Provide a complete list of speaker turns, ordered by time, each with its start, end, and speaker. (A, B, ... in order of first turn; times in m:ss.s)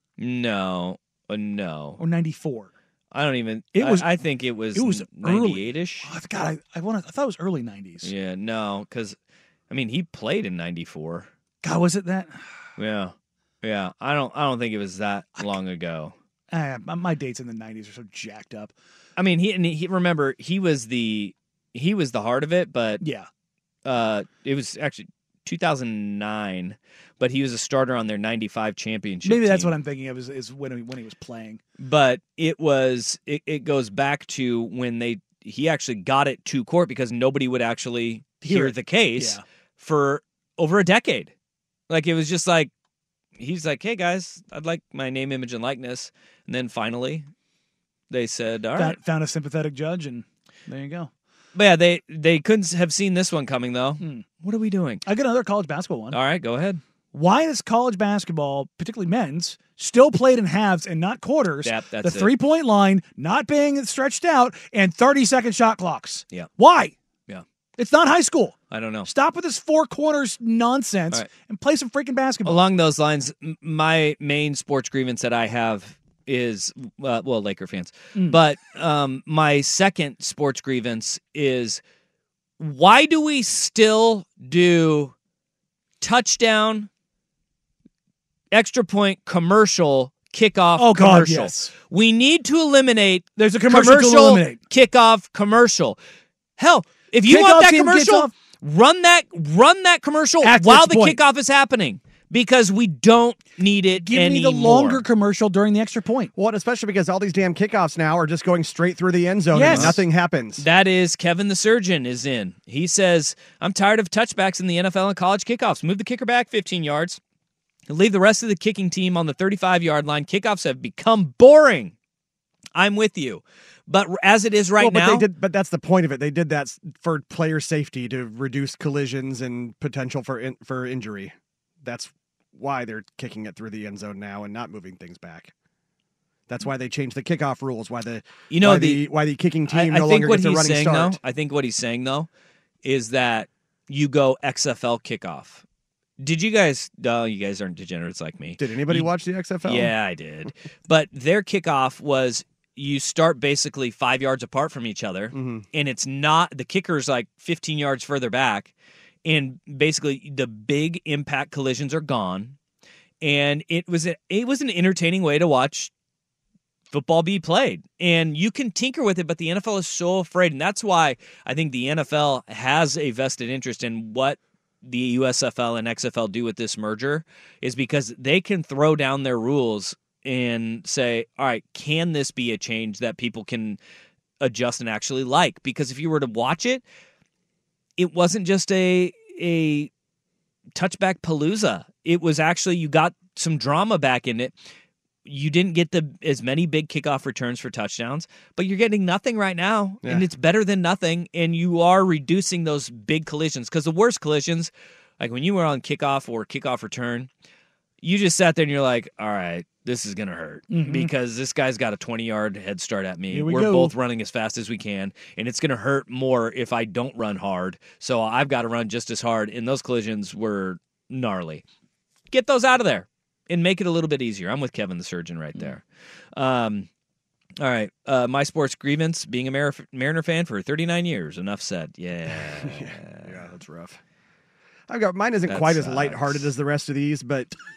0:00.2-0:02.0 A
0:02.0-0:02.7 B
0:03.1-0:06.1 A
0:03.8-0:04.1 B
0:04.8-0:08.1 B
0:08.0-0:09.2 A
0:09.7-0:11.3 A
0:11.6-0:12.4 B
0:12.8-0:16.1 A
0:16.5-0:18.7 B
0:19.2-0:23.0 A
0:23.0-0:23.3 B
0:23.8-0:29.7 A
0:29.2-0:31.6 B
0:31.8-0:41.3 A
0:38.4-0:39.4 B
0:41.9-0:42.7 A
0:43.4-0:47.2 A
0:48.1-0:49.0 A
0:48.8-0:51.1 B
0:51.6-0:55.0 A
0:55.1-0:56.2 B
0:56.1-0:56.8 A
0:57.1-1:07.0 B
1:01.6-1:02.3 A
1:07.8-1:12.6 B
1:08.7-1:09.1 A
1:12.4-1:21.8 A
1:22.6-1:25.1 A
1:26.0-1:26.9 A
1:28.5-1:36.0 A
1:30.8-1:31.7 B
1:33.4-1:34.6 B
1:36.6-1:45.0 A
1:37.2-1:38.3 B
1:40.4-1:41.2 B
1:44.0-1:46.3 B
1:46.4-1:50.6 C
1:49.5-1:50.0 B
1:49.6-1:50.0 A
1:50.6-1:57.2 A
1:57.9-2:01.9 A
2:02.8-2:05.2 A
2:04.8-2:15.5 C
2:16.5-2:21.2 C
2:18.5-2:19.1 A
2:19.7-2:22.3 A
2:22.8-2:25.6 A
2:26.2-2:29.1 A
2:28.6-2:29.9 C
2:29.6-2:38.7 A
2:35.3-2:35.6 C
2:39.2-2:42.6 A
2:43.2-2:45.9 A
2:46.9-3:03.8 A
3:04.4-3:06.8 A
3:08.0-3:09.9 A
3:10.8-3:14.6 A
3:15.2-3:27.3 A
3:28.0-3:41.6 A
3:30.7-3:31.1 B
3:33.3-3:33.9 B
3:42.3-3:45.8 A
3:46.4-3:46.9 A
3:47.6-3:53.5 A
3:52.3-3:54.0 C
3:54.9-3:57.5 C
3:55.5-3:56.5 A